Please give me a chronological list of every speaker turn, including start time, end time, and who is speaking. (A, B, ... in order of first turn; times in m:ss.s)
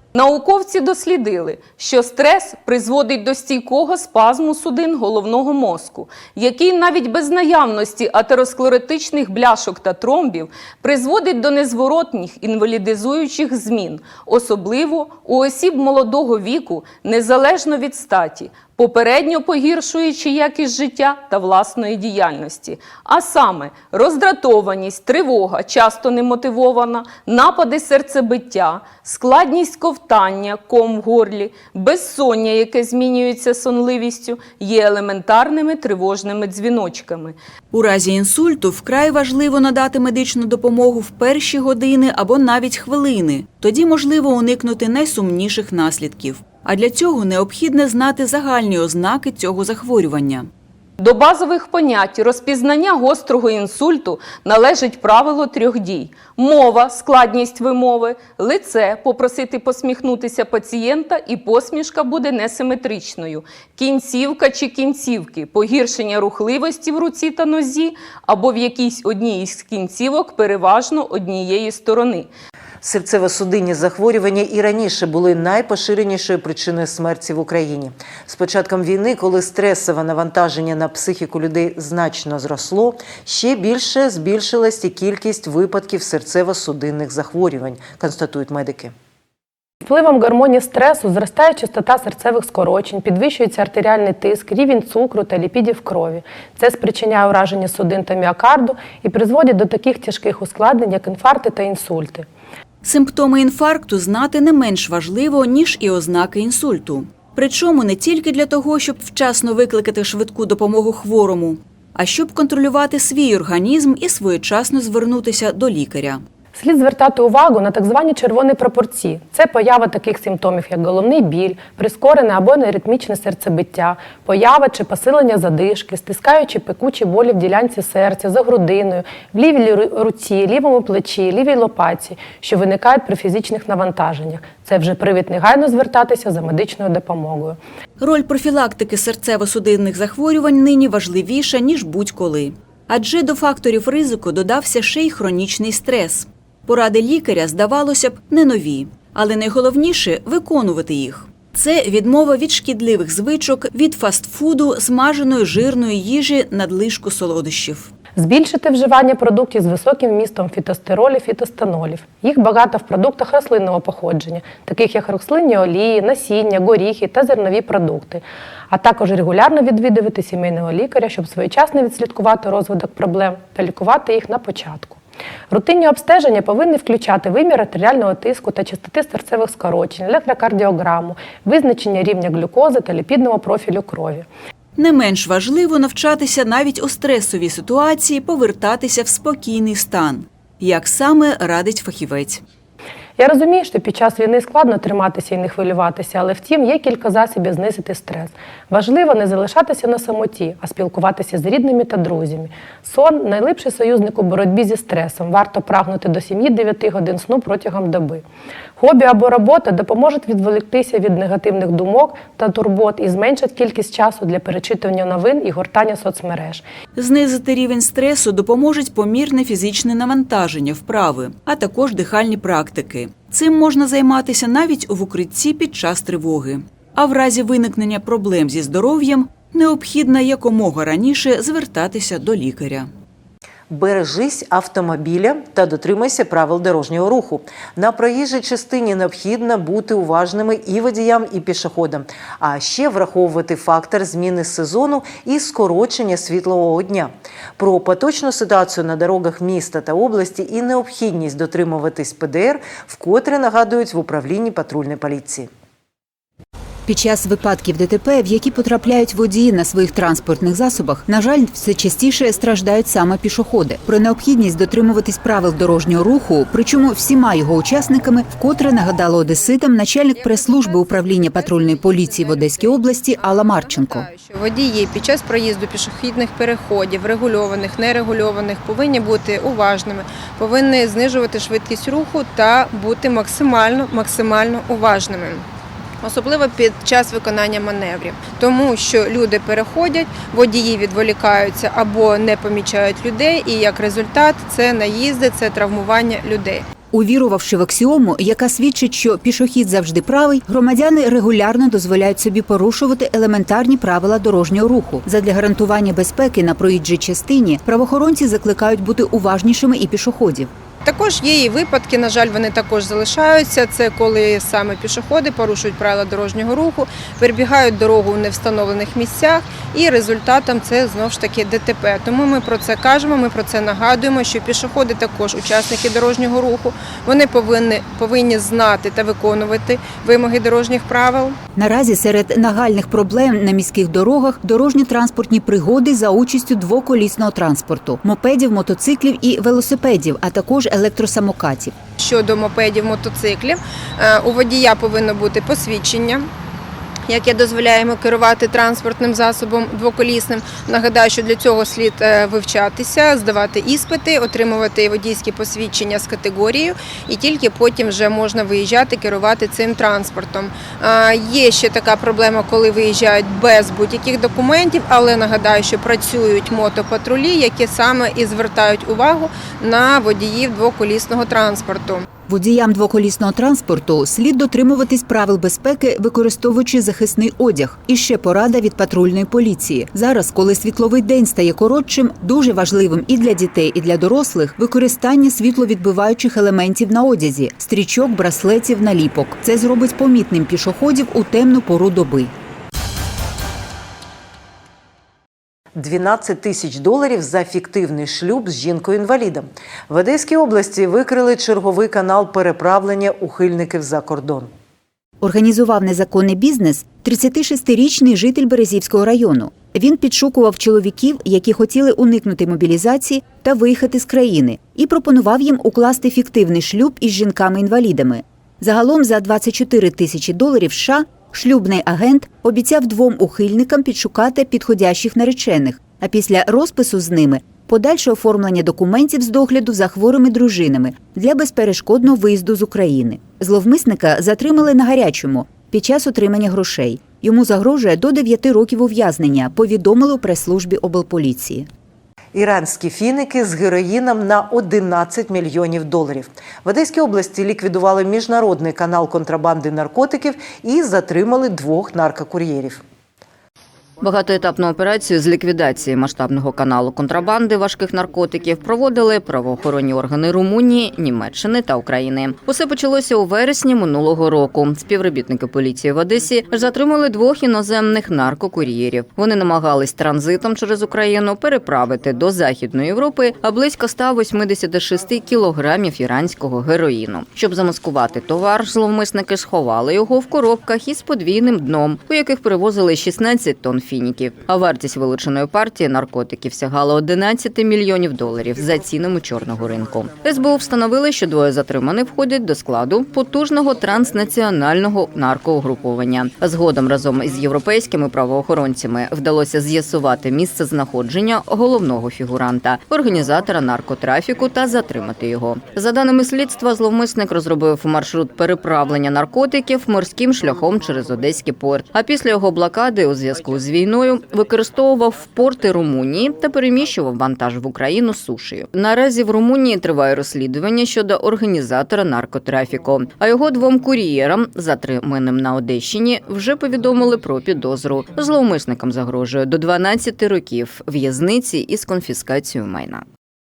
0:00.1-0:37.4 A
0:37.7-0:50.5 B
0:51.0-1:12.3 A
1:12.8-1:28.9 C
1:29.8-1:42.3 D
1:42.8-1:56.2 B
1:56.5-2:17.6 D
2:18.0-2:37.9 B
2:38.2-3:04.3 D
3:04.8-3:12.4 B
3:13.2-3:28.2 D
3:28.8-3:36.6 D
3:36.9-3:52.9 B
3:53.7-4:15.5 C
4:16.8-4:34.1 E
4:31.4-4:31.8 F
4:33.8-4:45.4 F
4:46.0-4:56.6 F
4:56.9-5:10.5 E
5:10.8-5:31.4 F
5:31.6-5:41.8 E
5:42.0-5:46.3 F
5:47.1-6:12.1 F
6:12.3-6:32.3 E
6:35.8-6:44.5 C
6:45.2-7:21.7 E
7:22.3-7:32.8 C
7:34.0-8:53.0 G